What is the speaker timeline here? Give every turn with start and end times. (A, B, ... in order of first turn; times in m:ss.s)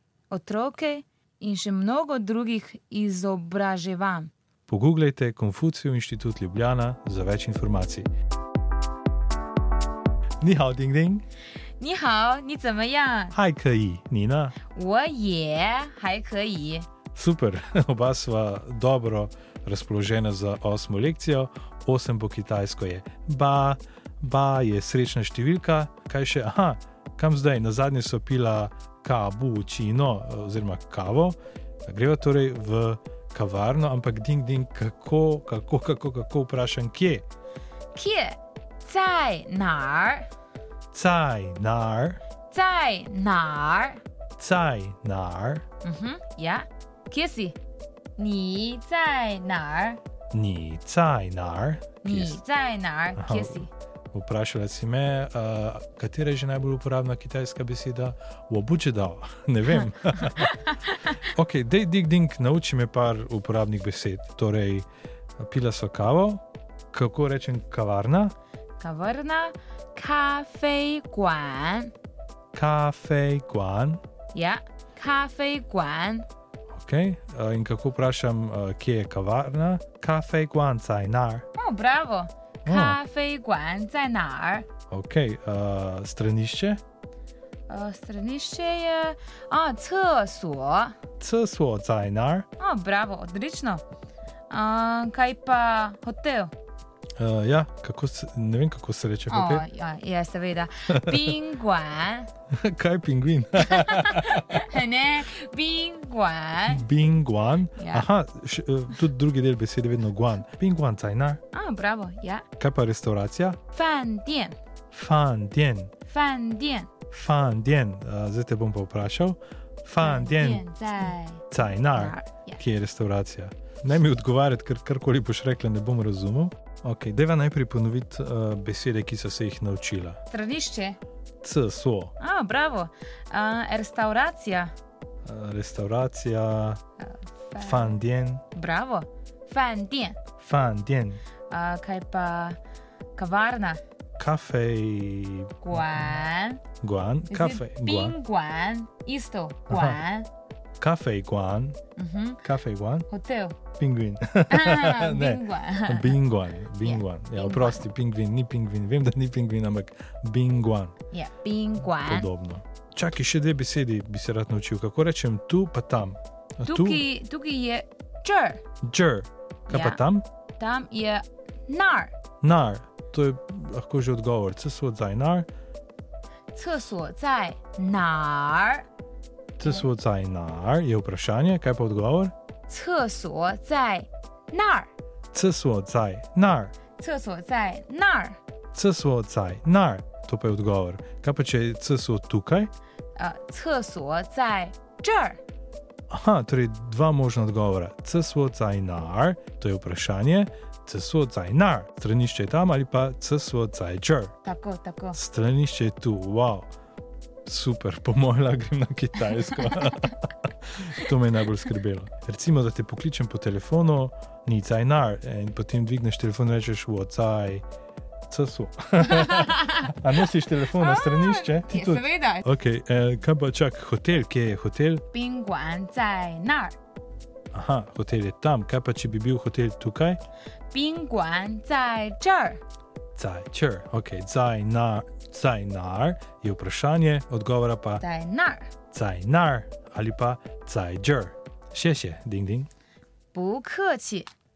0:00.3-0:04.3 A
0:04.7-0:08.1 B
0:10.4-0:11.2 B
0:11.8-0:13.4 A
0:13.3-0:14.6 B
0:14.7-0:16.9 A
0:17.1-0:37.2 B
0:38.0-0:40.3 A
0:40.9-0:42.2 B
0:42.5-0:44.0 A
0:44.4-0:45.6 B
0:45.8-0:47.6 A
0:48.2-0:50.0 A
0:50.3-0:52.4 B
0:52.0-0:53.7 A
0:53.2-1:00.5 B
1:00.2-1:01.2 A
1:01.2-1:04.9 B
1:05.4-1:08.3 B
1:08.8-1:11.9 A
1:12.5-1:14.0 B
1:14.3-1:16.3 A
1:16.7-1:21.5 B
1:21.6-1:24.7 A
1:22.6-1:23.0 B
1:24.9-1:26.8 B
1:27.7-1:31.0 A
1:31.2-1:32.5 B
1:32.6-1:33.8 A
1:34.5-1:36.5 A
1:37.2-1:39.7 B
1:39.3-1:42.3 A
1:40.9-1:41.4 B
1:42.5-1:44.5 B
1:43.7-1:46.8 A
1:46.7-1:51.4 B
1:47.8-1:48.1 A
1:51.5-1:52.4 A
1:52.6-1:53.6 B
1:53.7-1:54.6 A
1:54.9-1:55.9 B
1:56.1-1:56.9 A
1:57.1-2:10.2 B
2:00.0-2:02.6 A
2:10.3-2:11.0 A
2:11.4-2:12.1 B
2:12.2-2:14.7 A
2:15.2-2:16.8 B
2:17.0-2:18.0 A
2:17.6-2:18.4 B
2:18.5-2:20.2 A
2:20.4-2:21.2 B
2:21.5-2:22.6 A
2:23.2-2:23.8 A
2:24.2-2:25.9 B
2:25.6-2:26.6 A
2:26.8-2:28.2 B
2:27.3-2:30.3 A
2:29.7-2:30.0 B
2:30.8-2:31.8 B
2:32.0-2:32.4 A
2:32.4-2:33.1 B
2:33.1-2:33.6 A
2:33.8-2:40.9 B
2:34.5-2:36.2 A
2:36.8-2:37.8 A
2:41.1-2:42.3 A
2:42.0-2:47.0 B
2:46.6-2:48.6 A
2:48.8-2:50.2 B
2:49.7-2:50.0 A
2:50.6-2:52.1 A
2:52.4-2:55.5 B
2:56.5-2:58.9 A
2:59.6-3:02.3 B
3:02.7-3:04.9 A
3:05.3-3:06.7 B
3:07.0-3:08.4 A
3:08.7-3:12.7 B
3:13.2-3:15.4 A
3:16.1-3:24.3 B
3:24.4-3:25.2 A
3:25.1-3:26.7 B
3:27.4-3:37.6 B
3:29.6-3:30.0 A
3:38.3-3:45.0 B
3:39.0-3:40.0 A
3:40.7-3:42.5 A
3:45.1-3:46.8 A
3:47.5-3:50.2 B
3:50.7-3:52.6 A
3:53.2-3:58.0 B
3:58.0-3:58.7 A
3:58.9-4:02.7 B
4:03.3-4:04.3 A